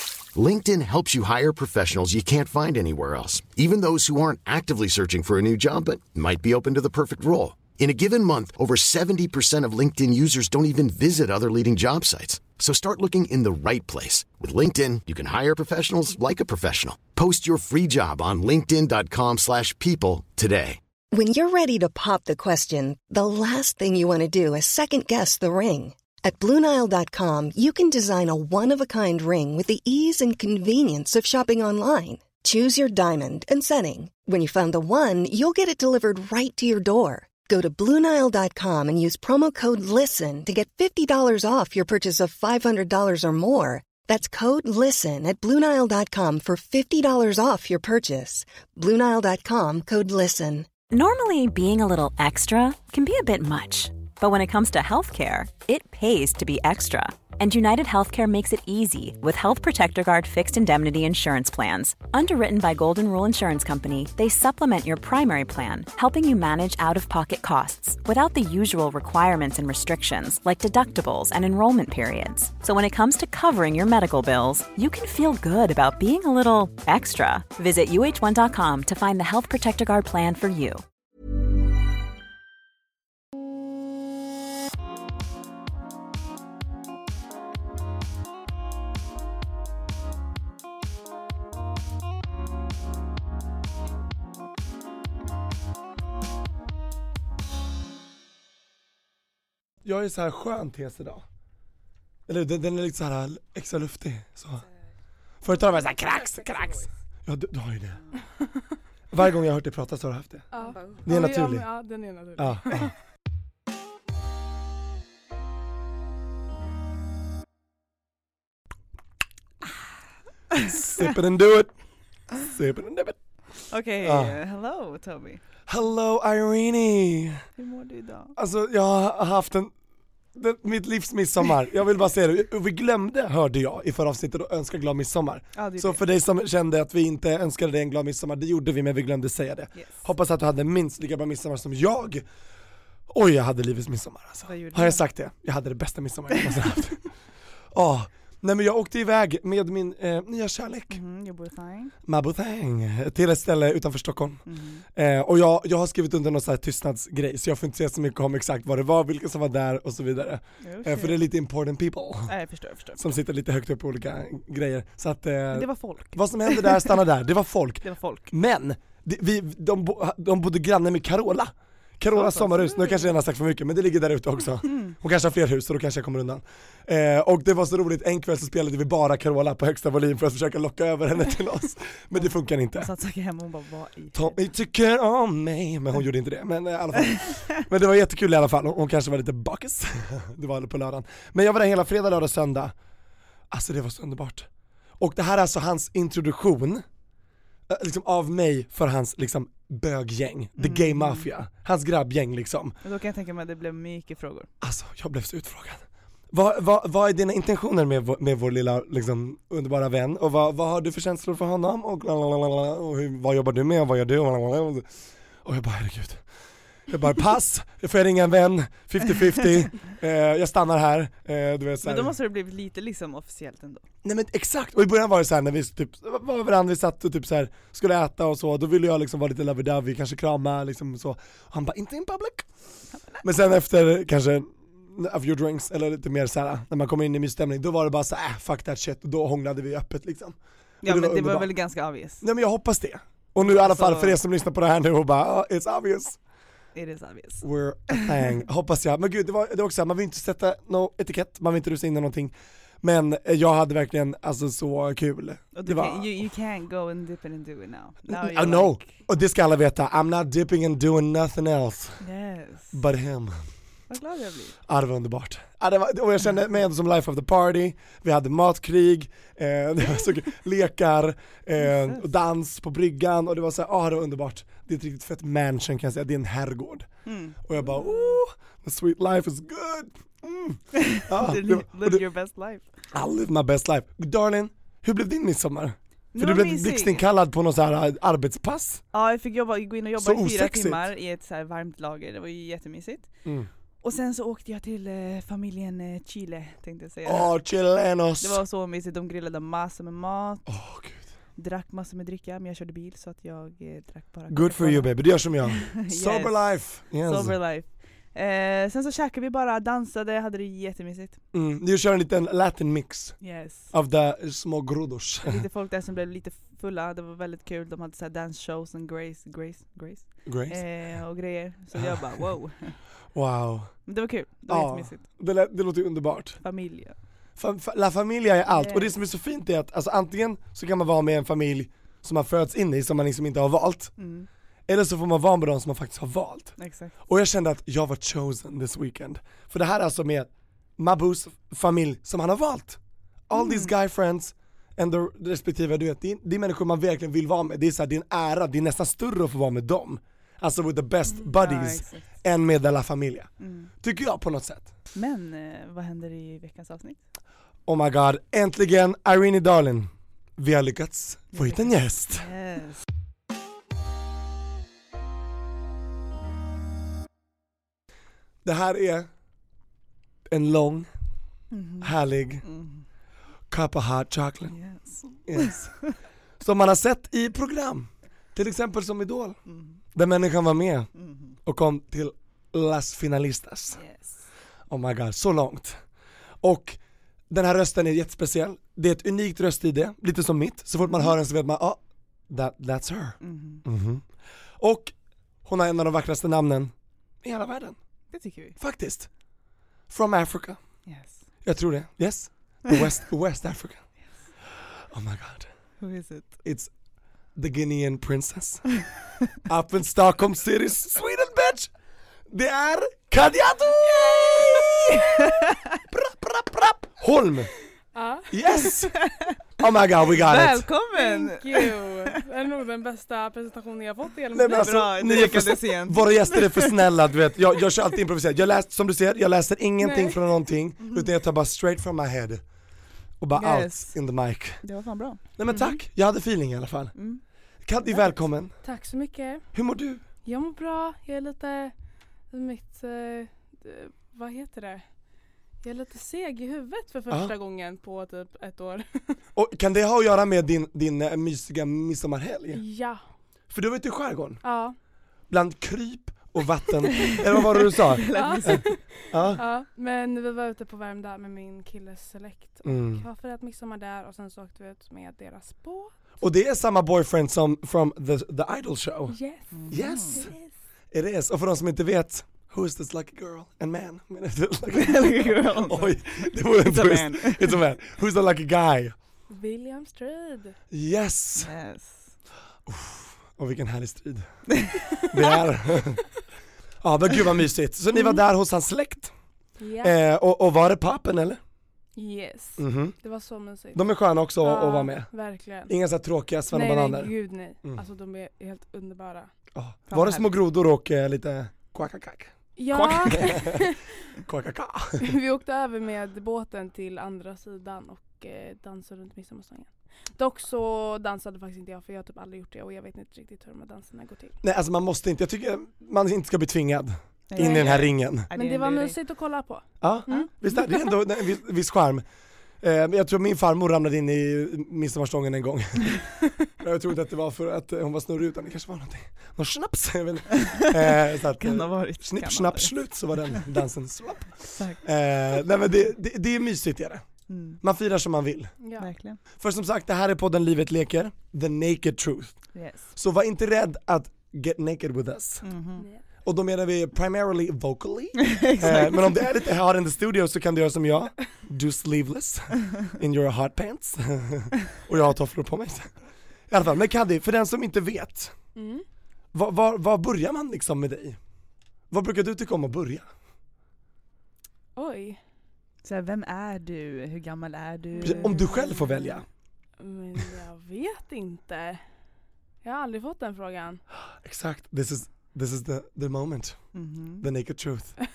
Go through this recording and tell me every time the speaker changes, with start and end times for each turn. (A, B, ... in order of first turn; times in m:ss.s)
0:00.3-0:20.8 A
0:21.1-0:50.7 B
0:50.9-1:20.8 C
1:39.8-1:41.2 D
1:42.3-1:44.6 D
1:45.4-1:48.0 D
1:49.1-1:50.5 D
1:50.5-1:52.9 E
1:51.0-1:51.7 D
1:52.4-1:52.9 D
2:00.6-2:01.7 D
2:02.4-2:03.2 D
2:03.7-2:05.4 F
2:04.0-2:04.4 D
2:05.7-2:07.4 D
2:07.6-2:08.4 F
2:08.4-2:09.7 D
2:10.3-2:22.2 D
2:15.6-2:16.0 F
2:19.8-2:20.0 F
2:23.1-2:27.1 D
2:24.4-2:25.0 F
2:27.7-2:31.0 D
2:30.9-2:31.9 F
2:32.0-2:42.3 D
2:34.5-2:34.8 F
2:40.6-2:41.2 F
2:42.3-2:43.1 F
2:43.0-3:02.9 D
2:45.5-2:47.0 F
2:47.8-2:48.3 F
2:52.1-2:53.1 F
2:54.7-2:54.9 F
3:02.2-3:04.3 F
3:04.1-3:12.7 D
3:13.5-3:14.5 D
3:15.0-3:16.8 D
3:17.7-3:22.8 D
3:20.6-3:21.3 F
3:22.8-3:24.5 F
3:24.6-3:34.9 D
3:35.4-3:36.2 D
3:36.9-3:42.1 D
3:41.8-3:43.8 F
3:44.0-3:52.4 D
3:53.2-4:01.5 D
4:00.8-4:02.2 F
4:02.2-4:06.2 D
4:03.4-4:04.2 F
4:06.7-4:08.3 F
4:07.4-4:16.2 D
4:15.5-4:18.9 F
4:18.1-4:22.0 D
4:22.0-4:22.8 F
4:22.7-4:23.4 D
4:23.9-4:24.6 F
4:24.7-4:36.9 D
4:31.6-4:32.0 F
4:37.0-4:37.4 F
4:37.4-4:42.0 D
4:40.7-4:42.7 F
4:42.9-4:48.8 D
4:46.1-4:47.0 F
4:48.9-4:53.1 F
4:50.0-4:50.9 D
4:53.2-4:53.5 D
4:53.8-4:57.4 F
4:57.0-4:58.4 D
4:58.2-5:00.5 F
5:00.5-5:01.1 D
5:01.4-5:04.9 F
5:04.3-5:07.4 D
5:05.5-5:11.2 F
5:11.3-5:15.4 D
5:13.2-5:13.7 F
5:15.2-5:22.8 F
5:20.2-5:20.6 D
5:21.7-5:22.0 D
5:23.1-5:23.9 D
5:23.9-5:25.0 F
5:24.5-5:26.4 D
5:26.4-5:27.0 F
5:27.4-5:34.0 D
5:28.5-5:28.9 F
5:34.0-5:34.3 F
5:34.7-5:54.7 D
5:36.6-5:37.0 F
5:43.3-5:43.7 F
5:51.3-5:52.1 F
5:53.4-5:53.7 F
5:54.9-5:57.0 F
5:57.7-6:02.3 D
6:01.3-6:02.8 F
6:08.4-6:09.1 D
6:10.3-6:10.9 D
6:11.5-6:12.8 F
6:11.8-6:12.4 D
6:13.5-6:14.6 D
6:14.5-6:15.9 F
6:15.2-6:15.8 D
6:16.4-6:19.4 D
6:19.5-6:19.8 F
6:19.9-6:20.9 D
6:21.0-6:21.3 F
6:21.4-6:23.8 D
6:23.7-6:24.2 F
6:24.7-6:25.8 D
6:26.4-6:26.8 D
6:27.3-6:34.1 D
6:30.8-6:31.1 F
6:33.2-6:33.6 F
6:34.6-6:34.9 D
6:35.4-6:36.7 D
6:37.2-6:37.8 D
6:38.1-6:38.6 F
6:38.6-6:39.1 D
6:39.9-6:40.6 D
6:40.8-6:41.3 F
6:41.4-6:43.8 D
6:44.9-6:45.5 D
6:45.8-6:46.4 F
6:46.4-6:46.7 D
6:47.3-6:48.8 D
6:49.4-6:51.7 D
6:52.3-6:57.5 D
6:54.6-6:55.6 F
6:57.9-6:58.3 E
6:58.3-6:59.0 D
6:58.7-6:59.4 F
6:59.6-7:00.7 D
7:00.0-7:02.2 F
7:00.9-7:04.7 E
7:04.3-7:12.4 D
7:04.5-7:06.8 F
7:09.8-7:10.2 E
7:13.2-7:14.6 D
7:13.3-7:14.0 F
7:14.6-7:15.7 F
7:15.4-7:17.0 D
7:17.0-7:17.2 F
7:17.6-7:18.6 D
7:18.6-7:19.5 E
7:19.5-7:20.0 D
7:20.2-7:21.7 E
7:22.3-7:24.8 E
7:25.6-7:29.2 E
7:29.3-7:32.6 D
7:32.5-7:33.0 E
7:33.5-7:34.4 D
7:34.4-7:34.8 E
7:35.3-7:39.4 D
7:37.1-7:38.8 F
7:38.1-7:45.9 E
7:42.6-7:43.0 D
7:46.2-7:49.2 D
7:49.1-7:50.5 E
7:49.5-7:50.2 F
7:49.7-7:50.3 D
7:50.9-7:58.9 D
7:54.7-7:57.6 F
7:59.3-8:00.6 E
8:00.7-8:01.5 D
8:01.4-8:02.2 F
8:02.7-8:04.5 D
8:05.1-8:06.0 D
8:06.8-8:09.1 D
8:09.6-8:09.9 E
8:09.8-8:11.4 D
8:12.0-8:13.8 E
8:12.6-8:12.9 D
8:13.7-8:15.1 D
8:14.4-8:15.7 E
8:15.7-8:17.1 D
8:16.5-8:19.3 E
8:19.5-8:23.7 D
8:19.9-8:20.3 F
8:22.6-8:23.8 E
8:22.7-8:23.3 F
8:24.2-8:25.1 D
8:25.0-8:34.4 E
8:34.4-8:38.3 D
8:37.3-8:39.0 F
8:37.4-8:40.3 E
8:39.8-8:42.0 D
8:42.6-8:57.1 D
8:50.4-8:53.4 F
8:54.5-8:54.8 F
8:57.3-8:57.6 F
8:57.6-8:58.5 D
8:58.6-8:58.9 E
8:58.8-8:59.2 F
8:59.4-9:05.5 D
9:02.5-9:02.9 F
9:05.4-9:05.8 F
9:06.2-9:15.9 D
9:08.2-9:09.1 F
9:16.5-9:18.3 D
9:18.5-9:18.8 E
9:19.3-9:21.2 D
9:21.9-9:23.0 D
9:24.8-9:25.2 E
9:25.8-9:29.1 F
9:27.9-9:28.9 E
9:28.0-9:29.2 D
9:29.8-9:31.8 E
9:32.6-9:33.8 E
9:34.2-9:38.0 D
9:36.7-9:37.2 F